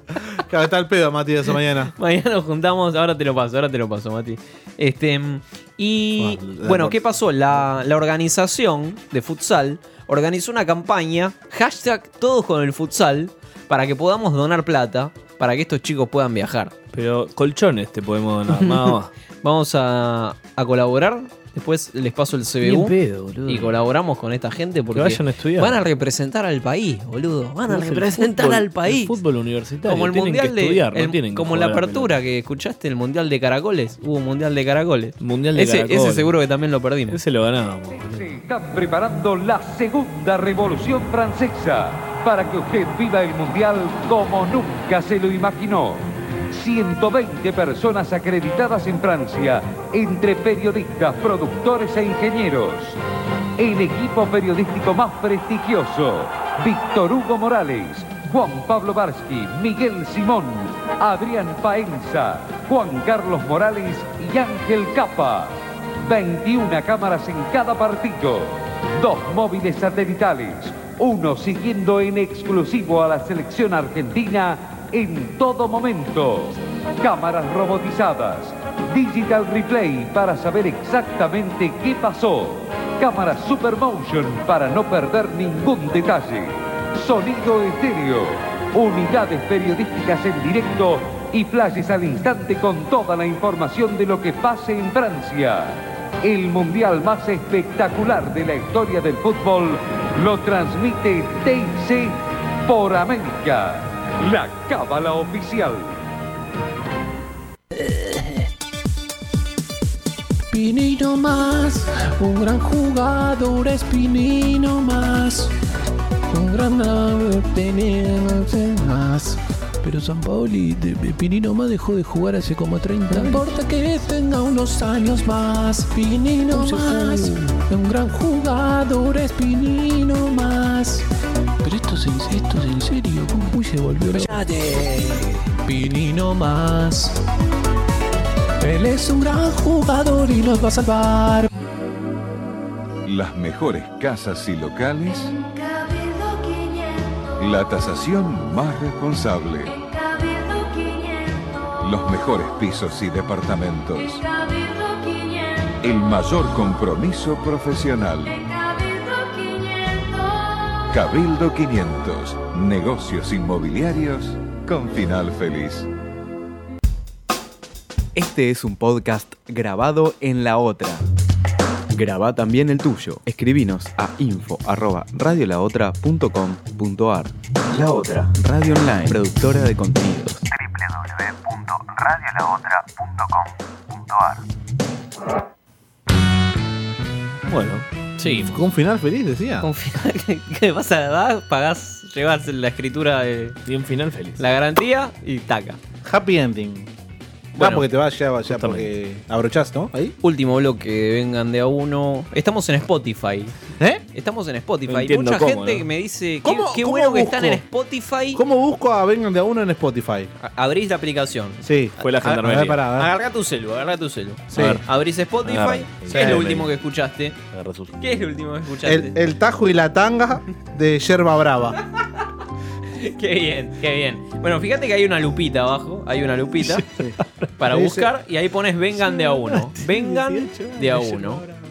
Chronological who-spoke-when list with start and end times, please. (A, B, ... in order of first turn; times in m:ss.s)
0:00.3-0:01.9 A
0:02.0-0:16.7 B
0:06.2-0:07.0 A
0:16.9-0:19.1 C
0:18.5-0:22.9 B
0:22.6-0:23.8 C
0:23.4-0:29.1 B
0:24.9-0:25.8 C
0:27.7-0:32.1 C
0:29.8-0:37.2 B
0:35.2-0:36.3 C
0:37.1-0:38.4 C
0:37.9-0:53.0 D
0:53.6-1:45.9 D
1:50.5-1:55.5 E
1:56.3-2:11.1 E
2:11.6-2:17.2 E
2:18.6-2:21.5 E
2:23.0-2:25.3 F
2:27.4-2:29.7 F
2:31.8-2:34.2 F
2:35.8-2:38.4 F
2:40.9-2:45.9 F
2:48.1-2:51.0 G
2:51.9-2:57.3 G
2:58.3-3:00.4 G
3:07.5-3:07.8 C
3:08.2-3:08.6 B
3:08.3-3:09.7 A
3:09.6-3:13.6 B
3:13.6-3:14.4 C
3:14.4-3:15.8 B
3:16.0-3:16.9 A
3:17.6-3:17.8 B
3:17.6-3:20.1 A
3:18.5-3:18.9 C
3:20.2-3:23.5 B
3:24.1-3:28.4 B
3:24.9-3:25.9 C
3:26.4-3:27.6 A
3:28.3-3:30.3 A
3:30.4-3:31.6 B
3:31.6-3:33.1 A
3:32.0-3:32.8 C
3:33.0-3:37.4 B
3:34.5-3:34.8 A
3:34.6-3:34.8 C
3:35.4-3:36.7 C
3:36.0-3:36.4 A
3:37.5-3:38.0 C
3:38.0-3:39.2 B
3:38.8-3:41.8 A
3:43.0-3:46.8 B
3:46.7-3:48.1 A
3:47.6-3:51.4 B
3:49.2-3:51.4 C